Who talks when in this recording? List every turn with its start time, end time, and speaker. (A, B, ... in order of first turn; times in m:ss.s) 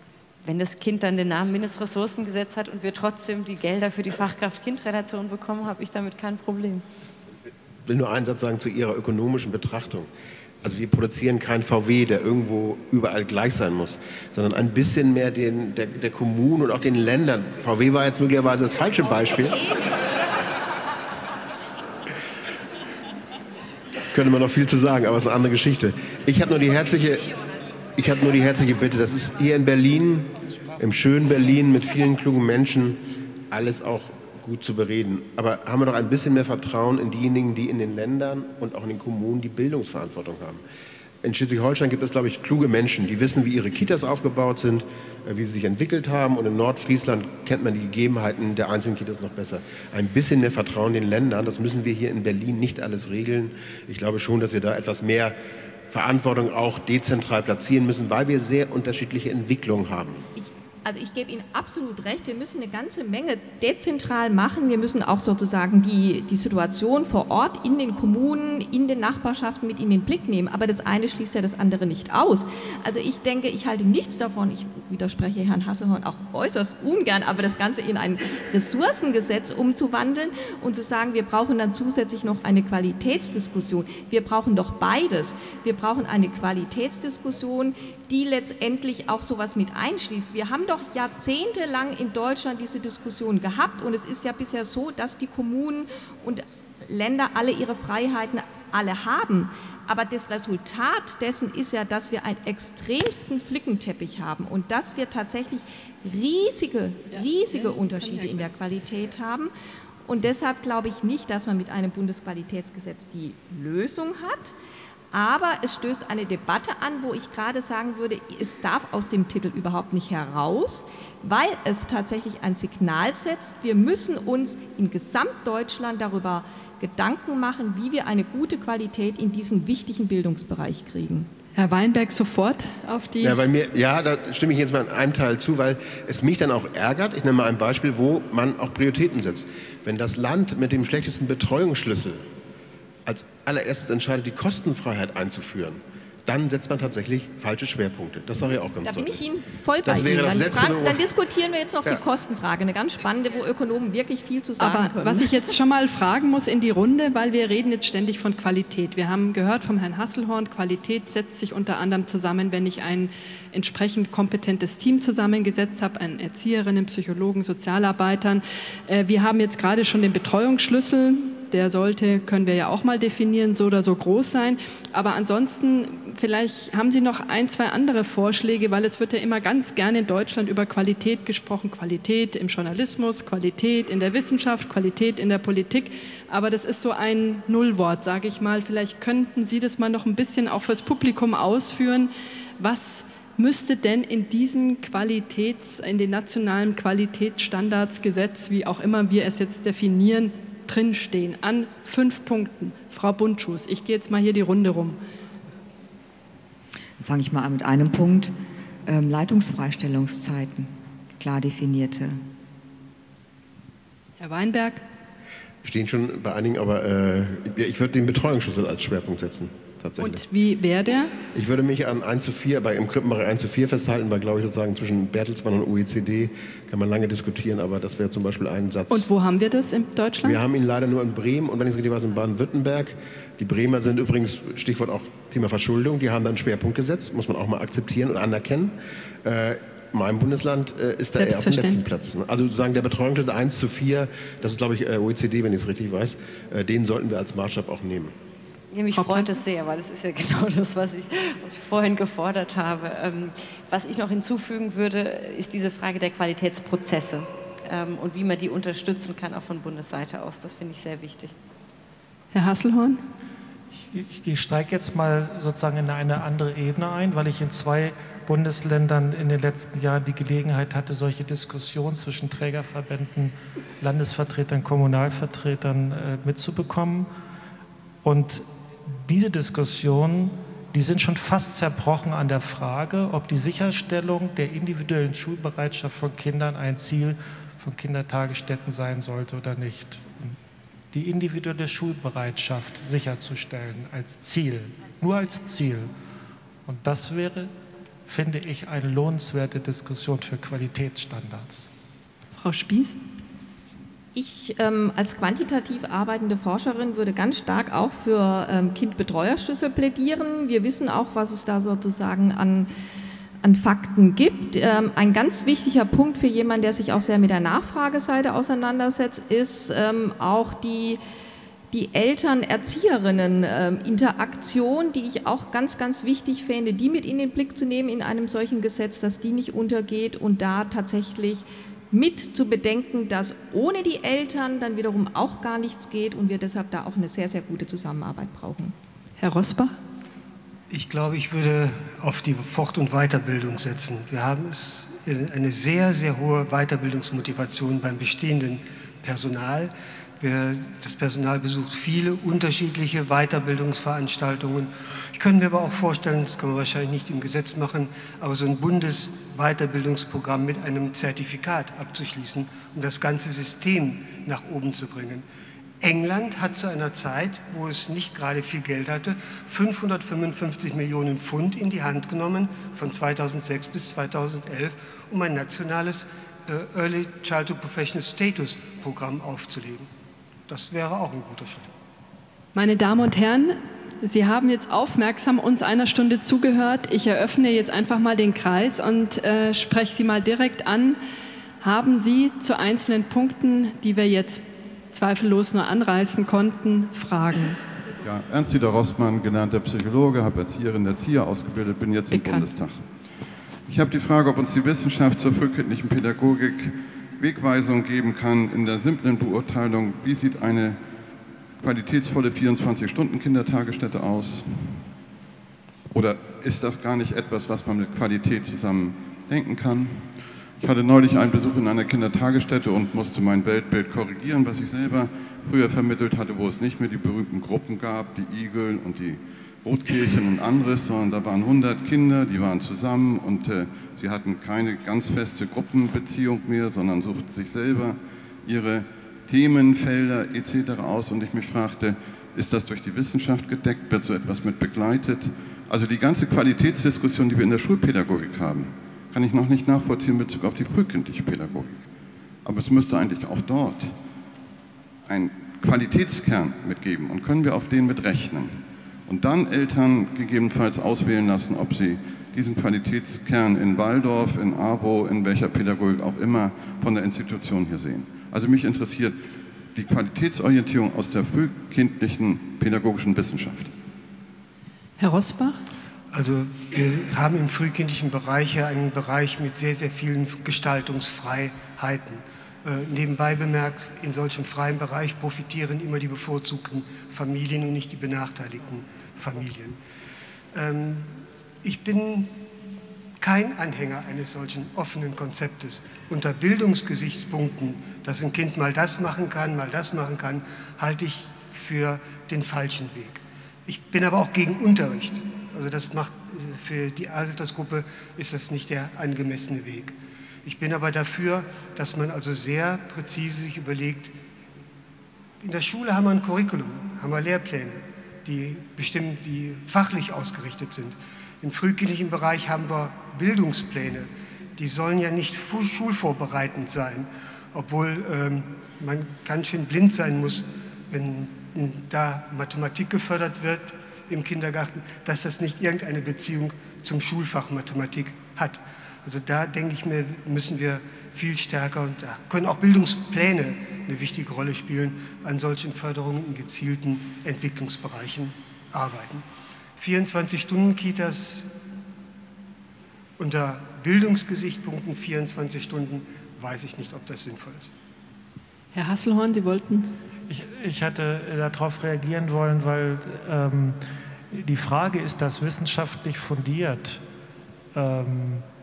0:00.4-0:06.8 A
0:07.8-0:10.1 B
0:10.6-0:19.7 B
0:24.1-0:27.3 B
0:28.0-0:40.6 B
0:41.2-0:55.4 B
0:55.9-1:00.2 B
1:00.4-1:49.5 C
1:47.1-1:48.5 D
1:50.0-1:54.5 C
1:55.1-2:11.3 C
2:11.6-2:13.4 D
2:13.2-2:22.2 B
2:23.0-2:29.2 B
2:28.8-2:35.3 C
2:29.8-2:31.0 B
2:34.6-3:25.0 D
3:27.0-3:28.3 E
3:28.8-3:32.2 E
3:34.2-3:34.8 D
3:35.6-3:40.2 B
3:40.0-3:41.2 D
3:41.3-3:49.1 B
3:48.9-3:50.4 D
3:50.2-4:08.1 B
4:01.1-4:01.8 D
4:08.7-4:21.3 A
4:08.9-4:09.3 D
4:22.3-4:23.0 D
4:23.8-4:37.1 F
4:38.0-4:38.4 F
4:39.0-4:50.4 F
4:50.9-4:55.9 F
4:56.6-4:57.5 F
4:58.1-5:01.7 F
5:02.3-5:03.0 D
5:04.1-5:12.7 C
5:13.4-5:21.0 C
5:21.7-5:38.7 C
5:39.2-5:39.8 D
5:40.7-6:05.2 G
6:05.8-6:19.9 G
6:20.5-6:21.7 G
6:22.5-6:31.0 D
6:31.6-6:37.6 D
6:38.0-6:43.0 H
6:42.1-6:42.4 D
6:43.6-6:50.8 H
6:51.6-6:54.9 H
6:55.9-7:31.8 H
7:32.4-7:34.0 H
7:35.0-7:49.2 H
7:49.7-7:53.7 H
7:55.0-7:55.6 D
7:56.1-8:09.8 G
8:10.5-8:12.3 G
8:13.2-8:34.1 G
8:35.4-9:09.2 G
9:09.8-9:11.5 G
9:13.2-9:17.7 G
9:18.7-9:19.9 D
9:20.3-9:23.8 F
9:24.3-9:27.0 F
9:27.7-9:28.4 F